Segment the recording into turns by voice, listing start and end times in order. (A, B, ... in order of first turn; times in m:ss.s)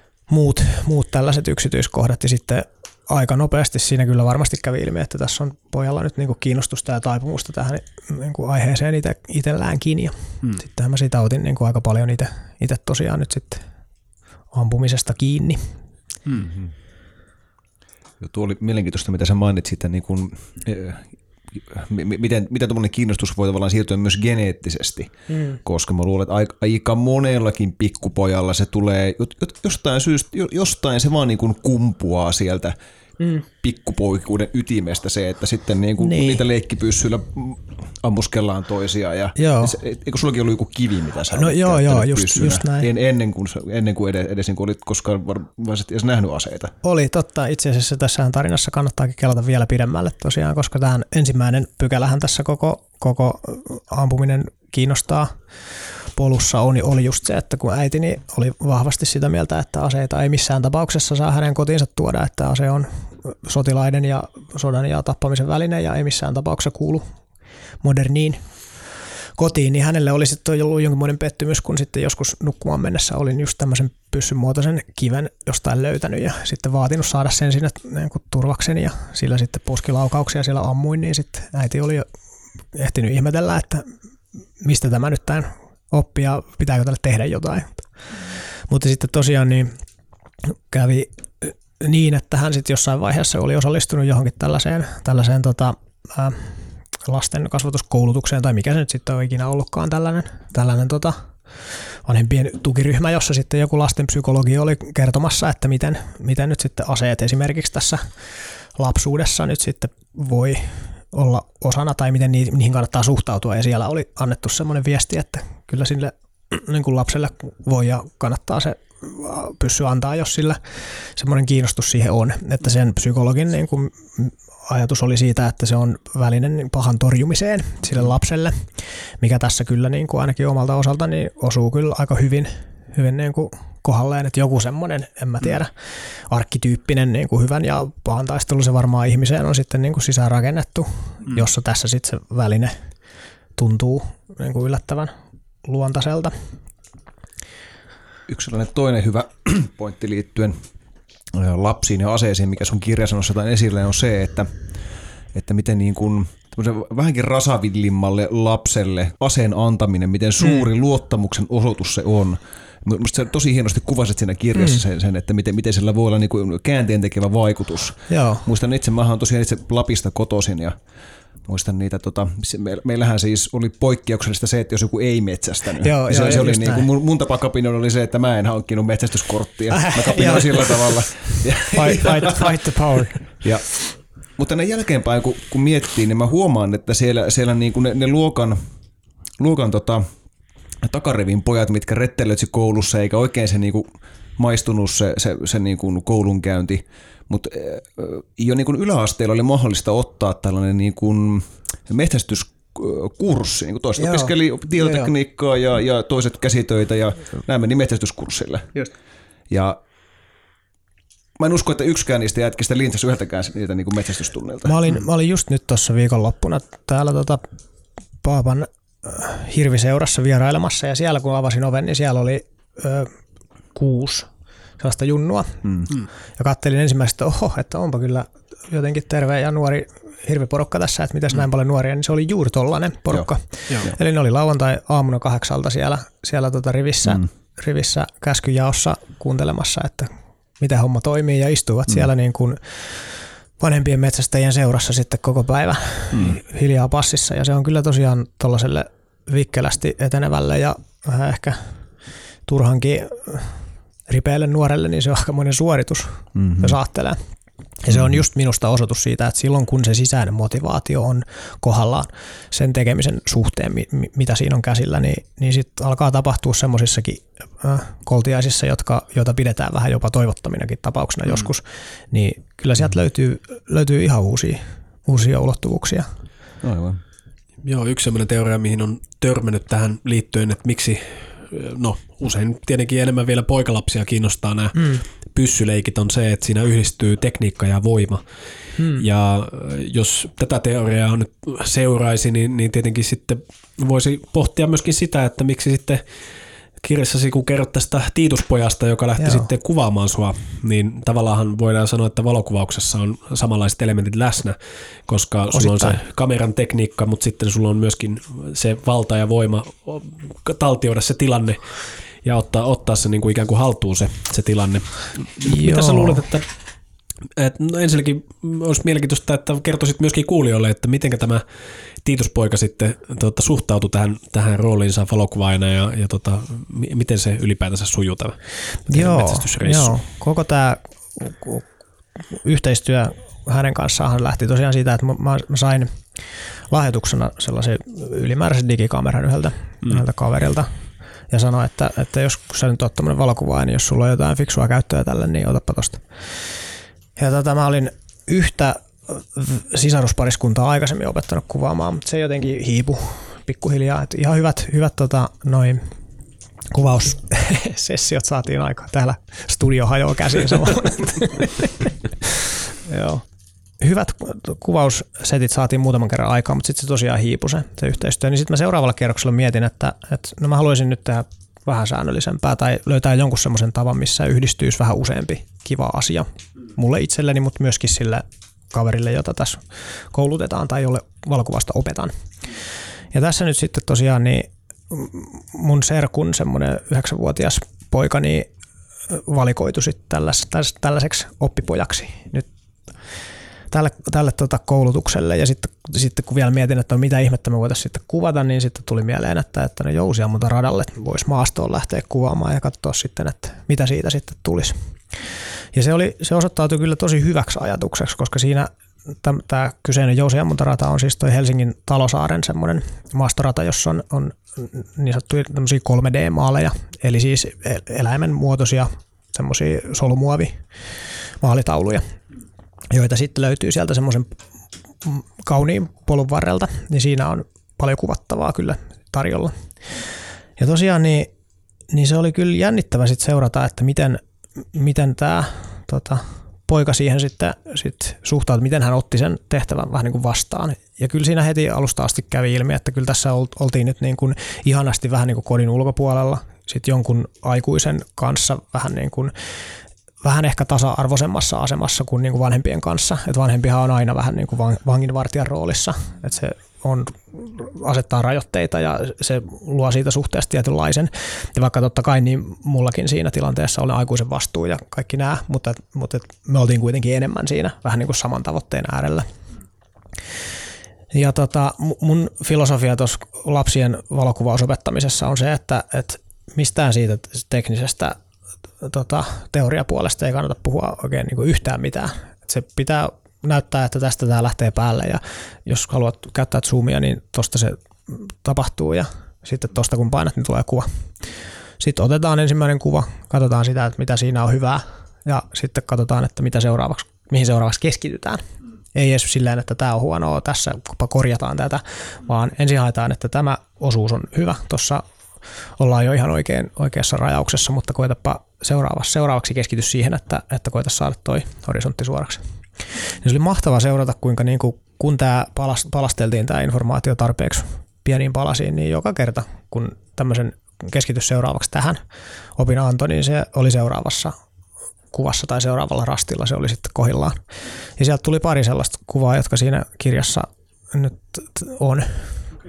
0:00.3-0:13.6 A
0:14.5-0:15.7 A
0:16.4-0:16.7 B
0:18.2-0:32.7 B
0:25.3-0:25.6 A
0:33.2-0:33.4 A
0:33.5-0:46.7 B
0:36.0-0:36.4 A
0:39.4-0:39.8 A
0:41.3-0:42.9 A
0:46.8-0:55.3 A
0:56.1-1:07.0 A
1:07.8-1:08.4 A
1:09.4-1:22.1 A
1:22.7-1:23.9 A
1:24.6-1:27.8 A
1:28.7-1:29.7 A
1:30.4-1:48.0 A
1:48.8-2:22.8 A
2:23.6-2:25.1 A
2:25.6-2:26.4 A
2:28.3-2:30.6 B
2:31.3-2:34.5 B
2:35.3-2:50.8 B
2:48.1-2:48.4 A
2:51.4-3:02.6 B
2:55.8-2:56.9 A
2:59.7-3:00.7 A
3:01.7-3:03.2 A
3:03.4-3:03.8 B
3:04.4-3:08.6 B
3:09.4-3:10.0 B
3:10.8-3:28.7 B
3:24.0-3:25.1 A
3:29.5-3:29.8 B
3:31.4-3:34.8 B
3:34.6-3:37.4 A
3:38.2-3:43.1 A
3:43.7-3:45.7 A
3:46.4-4:11.7 A
4:06.1-4:06.4 B
4:12.5-4:17.2 A
4:16.3-4:16.8 B
4:17.8-4:36.1 A
4:17.9-4:18.2 B
4:36.6-4:37.0 B
4:37.6-4:48.2 C
4:44.8-4:45.0 A
4:48.8-4:49.0 A
4:49.0-4:56.0 C
4:56.8-5:16.5 C
4:59.2-4:59.5 A
5:05.5-5:06.0 A
5:15.4-5:16.2 A
5:17.4-5:21.4 C
5:22.0-5:30.0 C
5:28.9-5:31.6 A
5:32.3-5:40.7 A
5:41.3-5:46.5 A
5:47.2-5:55.8 A
5:56.7-6:01.9 A
6:02.8-6:03.2 A
6:03.8-6:22.1 A
6:23.1-6:28.5 A
6:29.1-6:32.5 A
6:33.7-6:44.8 A
6:45.7-6:48.7 A
6:49.2-7:00.6 A
7:01.4-7:02.0 A
7:02.9-7:04.3 A
7:05.0-7:09.5 A
7:10.6-7:11.3 A
7:11.9-7:14.2 A
7:14.7-7:29.3 A
7:30.2-7:49.3 A
7:51.1-7:58.2 A
7:58.8-8:10.9 A
8:11.8-8:18.4 A
8:18.9-8:25.0 A
8:25.8-8:32.4 A
8:32.9-8:42.0 A
8:42.6-8:44.3 A
8:45.1-8:47.4 A
8:48.0-8:52.3 A